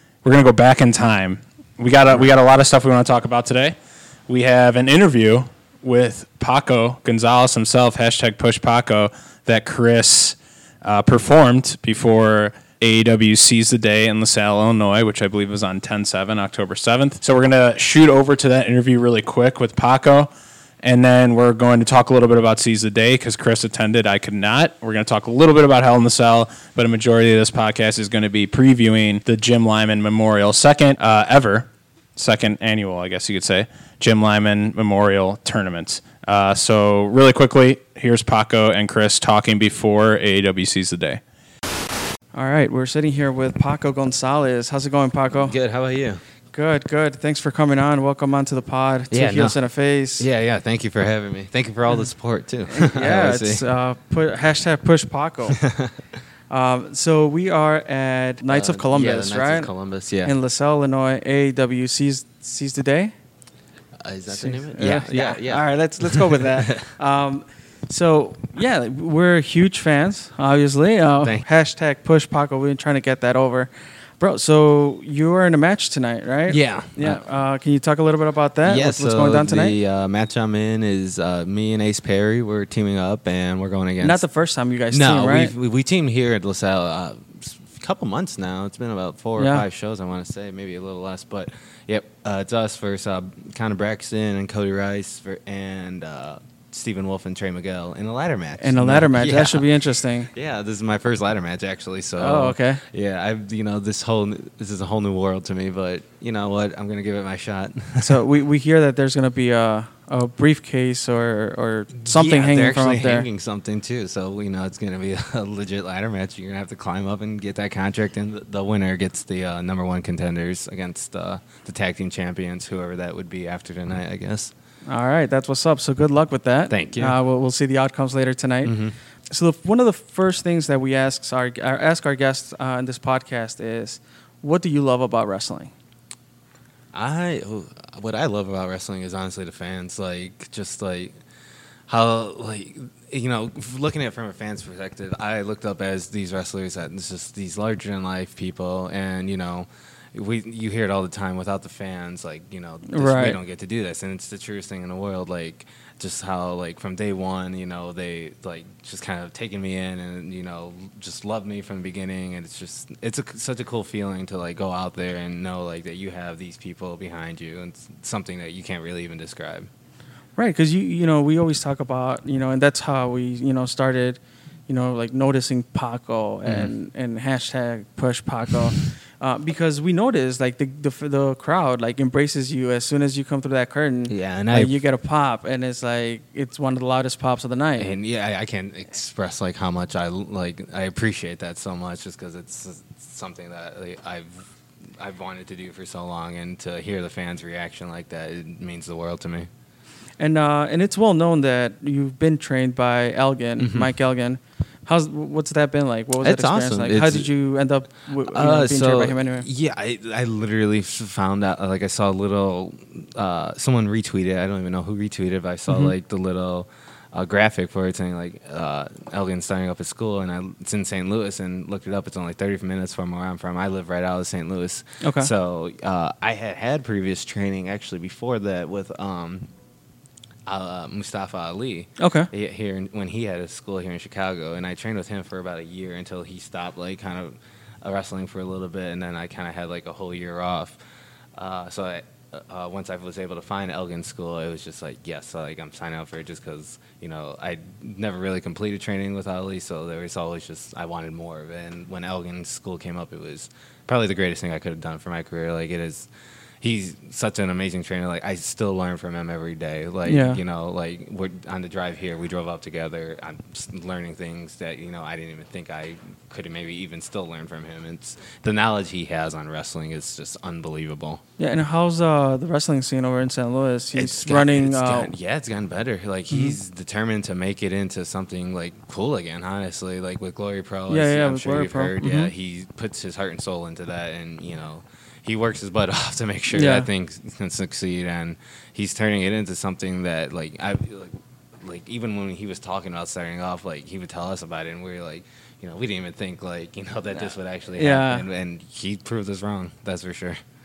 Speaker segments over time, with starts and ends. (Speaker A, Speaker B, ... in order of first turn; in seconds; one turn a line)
Speaker A: 0.2-3.8
Speaker A: 4.3-20.3
Speaker A: 20.8-41.2
Speaker B: 42.4-45.5
Speaker C: 45.3-46.2
Speaker B: 46.5-50.3
Speaker C: 49.1-49.6
Speaker C: 50.2-53.6
Speaker B: 52.7-55.6
Speaker C: 55.6-55.9
Speaker B: 56.5-59.7
Speaker C: 58.5-60.3
Speaker B: 60.2-63.1
Speaker C: 64.0-66.9
Speaker B: 64.3-79.8
Speaker C: 76.5-77.2
Speaker C: 78.7-84.2
Speaker B: 84.0-85.5
Speaker C: 84.9-99.6
Speaker B: 89.4-89.6
Speaker B: 98.6-100.3
Speaker C: 100.3-108.2
Speaker B: 102.2-102.8
Speaker B: 108.0-113.3
Speaker C: 112.0-124.5
Speaker B: 124.9-128.8
Speaker C: 126.7-127.2
Speaker C: 128.6-128.9
Speaker B: 129.3-135.7
Speaker C: 136.9-141.1
Speaker C: 141.9-169.7
Speaker B: 152.9-153.4
Speaker B: 170.4-187.9
Speaker C: 176.4-176.7
Speaker C: 184.1-184.7
Speaker C: 187.8-194.4
Speaker C: 195.0-199.5
Speaker B: 200.2-209.4
Speaker C: 203.6-203.9
Speaker C: 206.2-207.3
Speaker C: 208.2-229.5
Speaker B: 225.0-225.3
Speaker C: 230.5-240.8
Speaker B: 232.0-232.3
Speaker C: 241.3-256.1
Speaker C: 256.6-271.2
Speaker B: 260.1-260.4
Speaker B: 271.4-275.1
Speaker C: 273.9-300.4
Speaker B: 276.3-276.6
Speaker B: 280.9-282.3
Speaker B: 286.5-286.9
Speaker B: 297.8-298.2